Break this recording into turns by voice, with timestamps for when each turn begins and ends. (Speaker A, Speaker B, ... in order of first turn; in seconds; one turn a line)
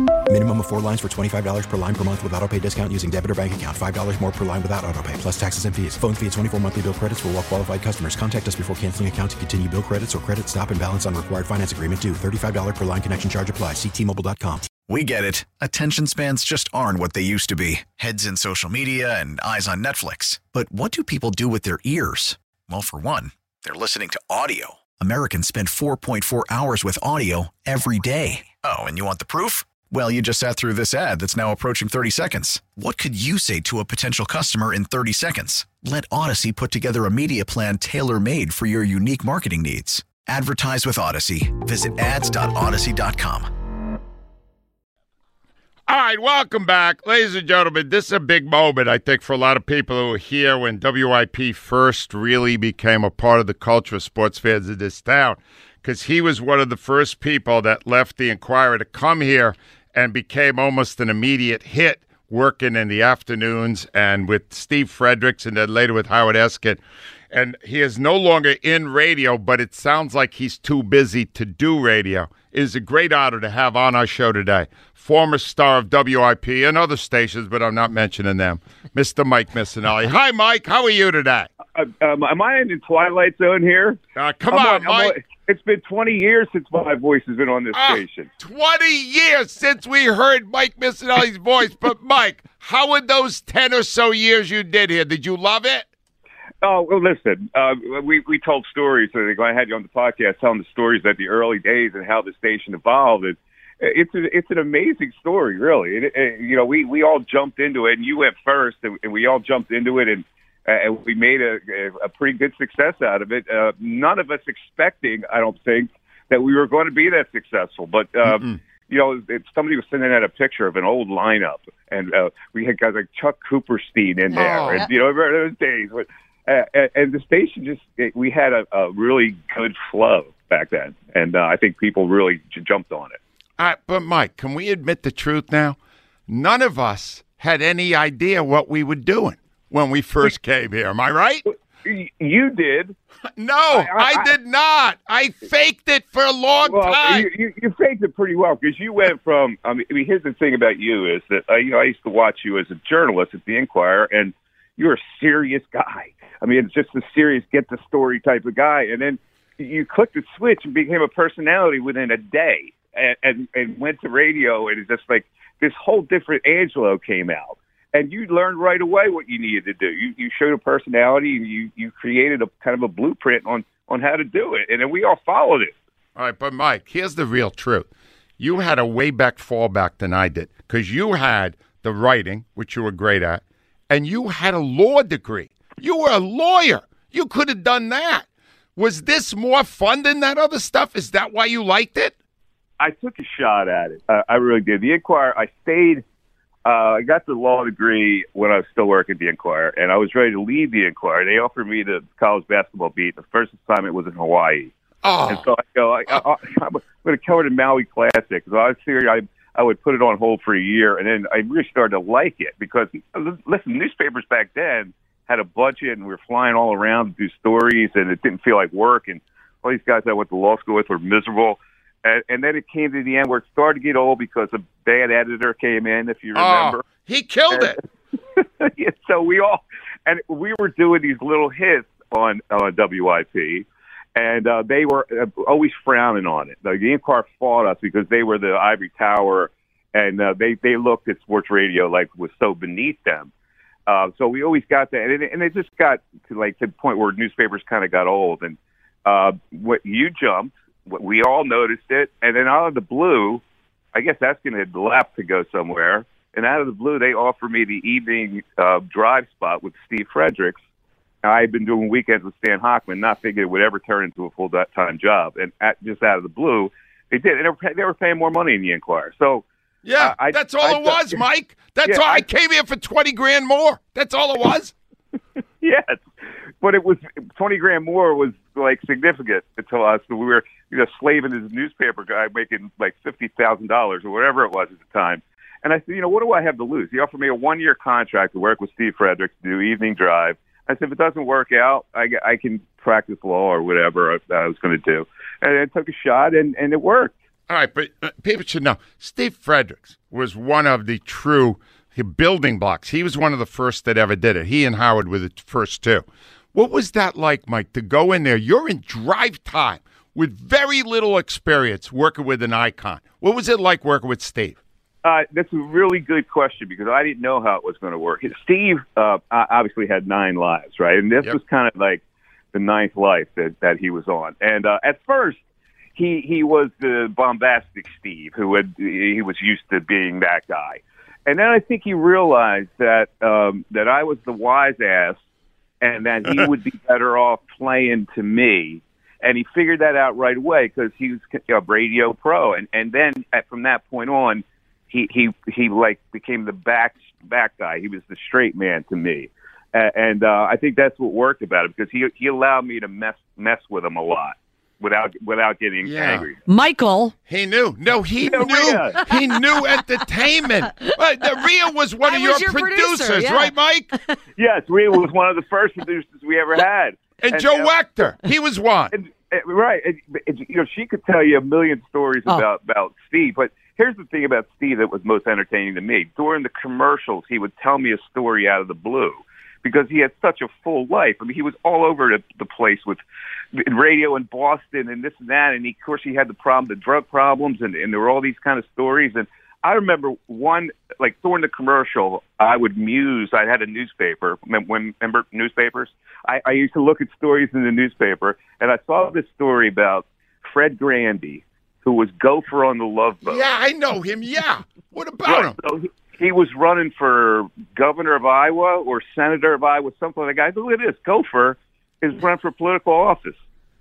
Speaker A: 0.3-14.7
Speaker B: 14.8-43.5
Speaker C: 45.9-66.8
Speaker C: 67.3-81.5
Speaker D: 81.7-84.0
Speaker C: 84.2-85.2
Speaker D: 84.5-88.3
Speaker C: 87.7-95.8
Speaker D: 96.6-133.2
Speaker C: 118.2-118.6
Speaker C: 124.3-124.9
Speaker C: 133.6-135.8
Speaker C: 136.3-141.4
Speaker D: 141.4-142.9
Speaker C: 143.4-147.3
Speaker D: 143.7-144.3
Speaker D: 146.6-175.7
Speaker C: 176.2-177.9
Speaker C: 178.4-188.2
Speaker C: 188.8-192.1
Speaker D: 192.8-196.0
Speaker D: 196.6-204.7
Speaker C: 205.0-205.5
Speaker D: 205.3-226.8
Speaker C: 226.3-227.8
Speaker D: 228.4-243.3
Speaker D: 243.9-253.4
Speaker D: 253.9-260.6
Speaker D: 261.2-269.4
Speaker C: 269.8-274.7
Speaker D: 270.0-271.2
Speaker D: 271.8-272.2
Speaker D: 275.6-276.1
Speaker D: 276.6-297.1
Speaker C: 297.5-314.6
Speaker D: 315.0-322.0
Speaker D: 322.5-325.4
Speaker D: 325.9-335.2
Speaker D: 335.8-356.4
Speaker C: 355.8-356.2
Speaker E: 356.4-357.1
Speaker C: 357.3-363.9
Speaker D: 358.3-359.1
Speaker E: 362.0-363.5
Speaker D: 364.4-367.7
Speaker C: 367.2-368.9
Speaker D: 368.9-383.0
Speaker D: 383.5-403.4
Speaker C: 403.2-405.6
Speaker D: 405.2-413.4